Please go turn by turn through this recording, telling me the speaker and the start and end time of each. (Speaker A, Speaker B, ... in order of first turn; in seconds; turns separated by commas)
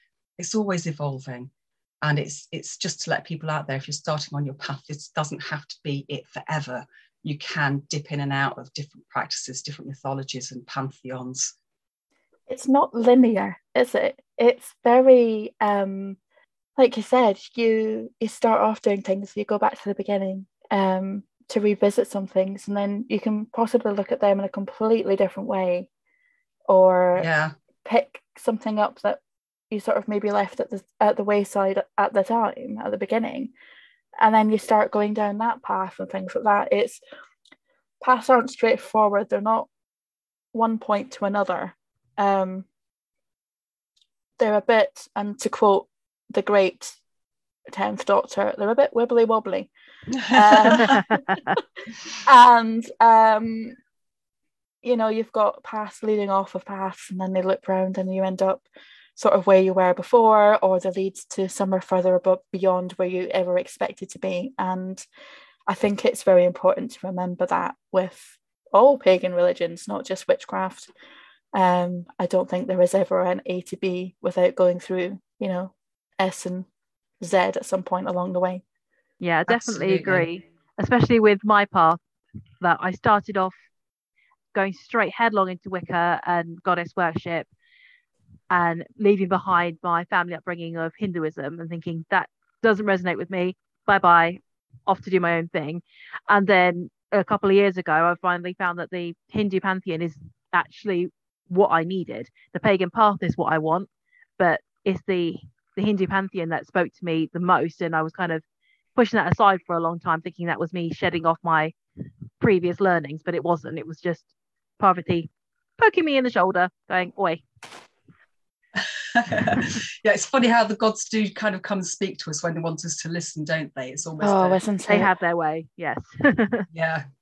Speaker A: 0.4-1.5, Speaker A: 2.0-11.5, Speaker B: 12.5-16.2, Speaker B: 16.8-25.9, Speaker B: 26.7-27.3, Speaker A: 27.2-27.5, Speaker B: 27.8-29.2, Speaker B: 29.7-33.5, Speaker B: 34.2-37.0, Speaker B: 38.0-39.7, Speaker B: 40.5-42.7, Speaker B: 44.4-47.0, Speaker B: 47.7-49.7, Speaker A: 50.1-51.0, Speaker B: 50.2-51.6, Speaker C: 50.8-51.4, Speaker B: 52.2-53.8, Speaker B: 54.8-65.0, Speaker B: 65.7-70.9, Speaker B: 71.5-76.7, Speaker B: 77.2-78.6, Speaker C: 79.2-82.0, Speaker A: 79.5-80.3, Speaker C: 82.6-83.5, Speaker C: 84.5-87.5, Speaker C: 88.5-103.9, Speaker C: 104.4-108.4, Speaker C: 109.0-111.7, Speaker C: 112.4-117.4, Speaker A: 118.8-124.6, Speaker B: 124.2-125.1, Speaker C: 124.9-126.7, Speaker A: 126.7-127.0